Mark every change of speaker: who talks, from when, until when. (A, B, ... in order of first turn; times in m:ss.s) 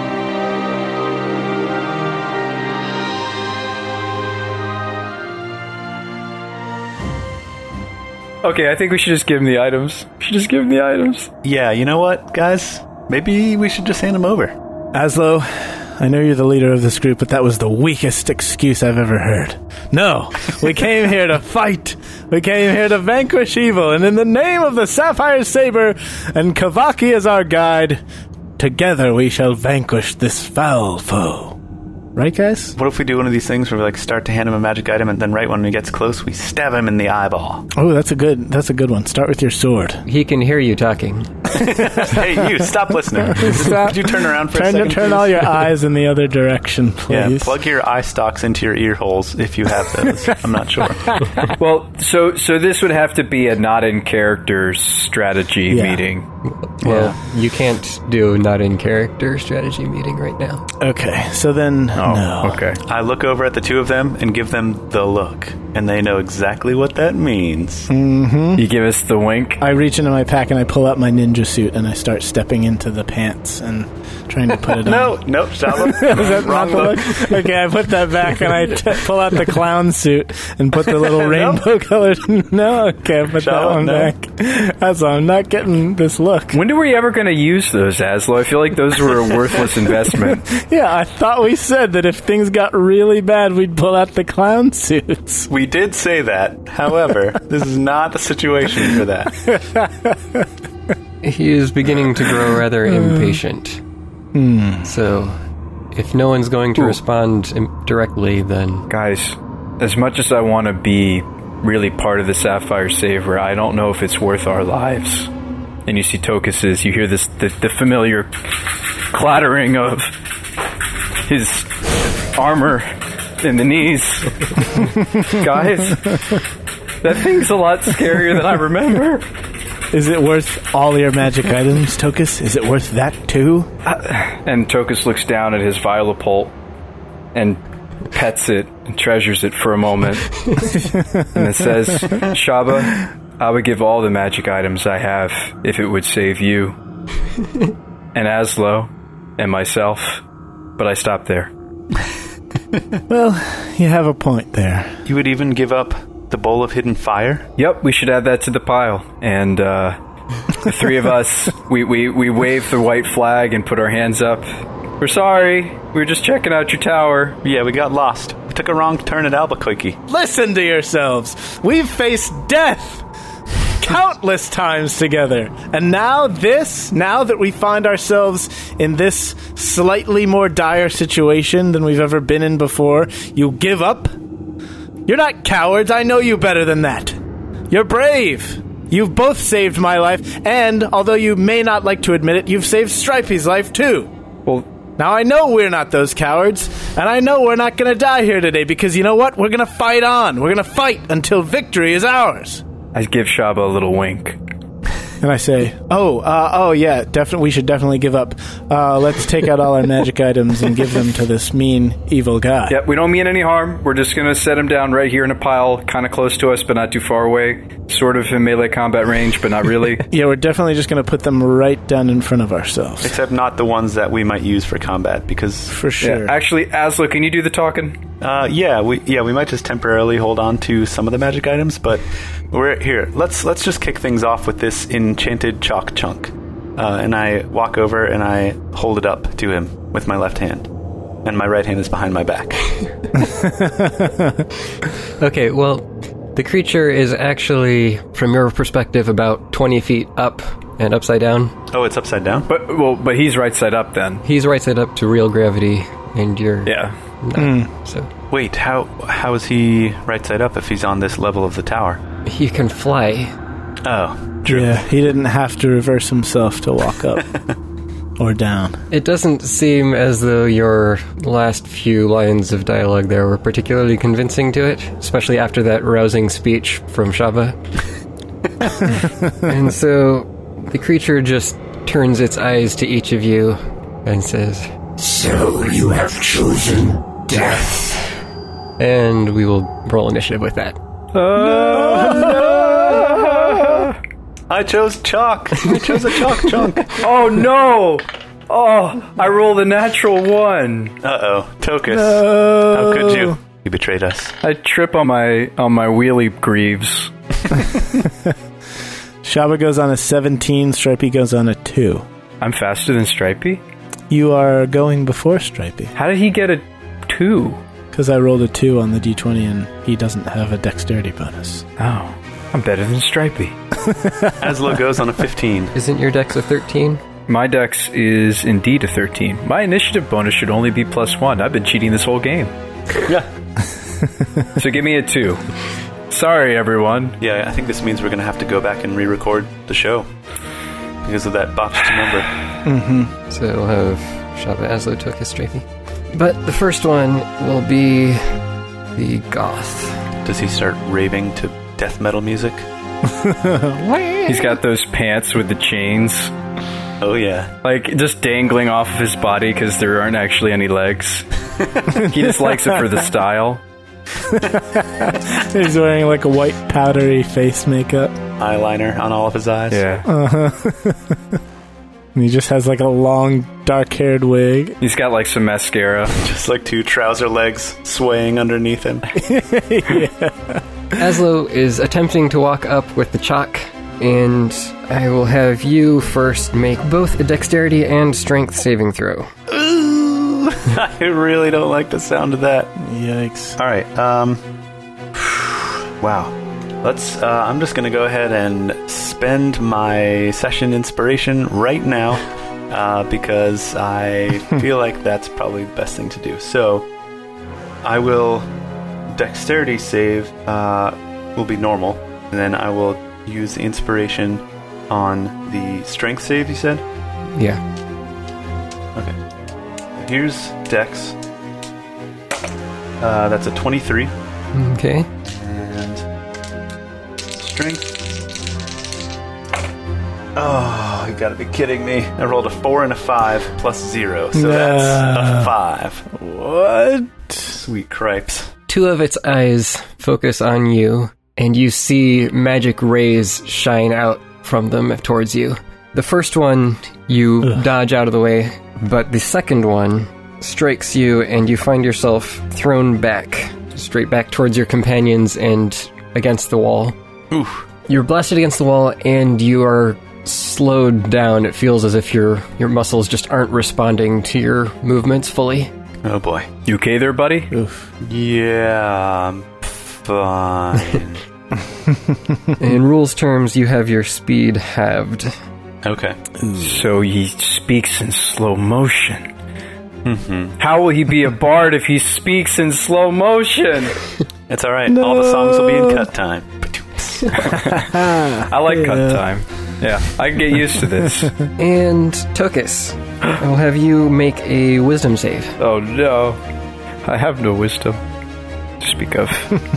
0:08.4-0:11.3 A
0:11.4-0:14.6 B
0:14.9-0:28.0 C
0:28.6-0:31.6 C
0:32.2-0:32.7 C
0:32.7-0:37.6 B
0:37.7-0:40.0 C
0:40.0-0:41.3 D
0:41.5-0:45.5 B
0:43.3-0:47.6 C
0:47.1-0:51.2 B
0:51.4-0:56.2 A
0:55.7-0:56.0 C
0:56.6-1:00.6 D
0:56.8-0:57.2 B
1:00.8-1:02.7 C
1:02.0-1:02.8 A
1:02.8-1:07.9 B
1:07.9-1:08.7 C
1:08.6-1:09.6 A
1:09.6-1:26.6 C
1:14.6-1:17.5 B
1:21.0-1:21.6 B
1:23.4-1:24.1 B
1:26.5-1:30.5 A
1:30.1-1:35.5 C
1:35.5-1:39.4 B
1:39.4-1:40.4 C
1:41.2-1:43.8 D
1:42.9-1:43.4 C
1:44.3-1:44.9 C
1:44.8-1:45.4 D
1:45.9-1:48.9 D
1:48.9-1:55.3 A
1:55.8-2:00.7 A
2:01.2-2:02.9 A
2:03.4-2:06.4 A
2:07.0-2:09.2 A
2:09.9-2:13.7 C
2:13.8-2:16.5 A
2:17.3-2:26.8 A
2:20.7-2:21.4 C
2:28.1-2:30.2 A
2:30.8-2:31.5 A
2:33.1-2:35.0 C
2:35.0-2:37.5 B
2:37.6-2:40.0 A
2:40.5-2:44.4 A
2:45.0-2:47.4 A
2:47.4-2:50.0 B
2:50.1-2:53.0 C
2:53.8-3:04.1 C
3:05.1-3:07.2 C
3:07.7-3:14.1 C
3:15.0-3:22.6 C
3:22.9-3:24.4 A
3:25.2-3:32.8 C
3:32.7-3:40.0 A
3:40.1-3:43.2 C
3:43.0-3:45.8 B
3:45.7-3:46.3 C
3:46.0-3:48.0 A
3:48.2-4:00.7 B
4:01.2-4:02.7 B
4:03.2-4:04.4 C
4:05.2-4:11.5 D
4:11.7-4:12.5 B
4:12.5-4:14.2 A
4:14.2-4:18.1 D
4:16.6-4:16.9 A
4:17.3-4:17.7 C
4:18.3-4:22.0 B
4:22.2-4:23.3 D
4:23.8-4:24.8 B
4:24.4-4:27.3 C
4:28.2-4:28.8 C
4:28.9-4:37.6 D
4:39.4-4:44.7 D
4:45.0-4:48.0 E
4:48.8-4:50.8 D
4:51.1-4:54.0 A
4:51.6-4:53.2 C
4:51.8-4:52.7 B
4:54.5-4:57.0 B
4:56.9-5:01.0 A
5:01.0-5:04.3 B
5:01.9-5:03.4 C
5:04.4-5:07.7 A
5:09.2-5:12.1 C
5:12.4-5:13.6 A
5:14.1-5:15.9 C
5:15.9-5:17.6 A
5:17.9-5:21.6 C
5:21.8-5:23.6 A
5:23.8-5:24.3 C
5:24.4-5:25.7 B
5:25.8-5:27.0 D
5:27.3-5:32.5 A
5:34.6-5:35.4 A
5:36.1-5:37.2 A
5:37.2-5:40.1 B
5:41.0-5:42.3 B
5:42.6-5:43.1 C
5:43.3-5:48.4 D
5:49.0-5:50.0 D
5:50.2-5:52.6 B
5:53.0-5:54.6 C
5:54.2-5:56.3 A
5:57.0-5:57.5 B
5:57.6-6:01.3 A
6:01.9-6:03.6 A
6:02.0-6:02.8 C
6:04.3-6:08.2 C
6:08.4-6:09.8 B
6:09.7-6:10.1 A
6:10.0-6:11.2 C
6:12.1-6:14.8 C
6:14.8-6:16.2 A
6:16.2-6:19.1 B
6:19.1-6:20.6 C
6:21.0-6:29.3 D
6:29.5-6:32.7 B
6:32.8-6:33.6 C
6:33.6-6:34.4 B
6:35.2-6:35.4 B
6:36.0-6:46.9 B
6:47.8-6:48.5 B
6:49.1-6:56.8 B
6:57.3-6:57.6 D
7:00.0-7:01.2 B
7:03.0-7:04.1 B
7:04.5-7:05.1 D
7:05.2-7:06.0 B
7:07.4-7:08.2 B
7:10.3-7:16.1 B
7:14.3-7:15.5 C
7:16.1-7:17.6 C
7:17.4-7:18.5 B
7:18.7-7:37.0 D
7:37.3-7:37.6 B
7:37.9-7:45.7 D
7:46.0-7:46.5 B
7:46.6-7:47.5 A
7:47.5-7:47.9 C
7:48.0-7:51.2 B
7:51.8-7:52.5 C
7:52.6-7:55.4 D
7:55.8-7:56.2 B
7:56.6-7:59.3 A
8:00.0-8:00.6 B
8:00.6-8:04.0 A
8:04.5-8:07.6 B
8:04.9-8:06.1 C
8:07.4-8:09.2 C
8:08.3-8:11.4 A
8:11.6-8:15.6 D
8:15.6-8:16.4 A
8:17.0-8:18.0 A
8:18.8-8:19.6 A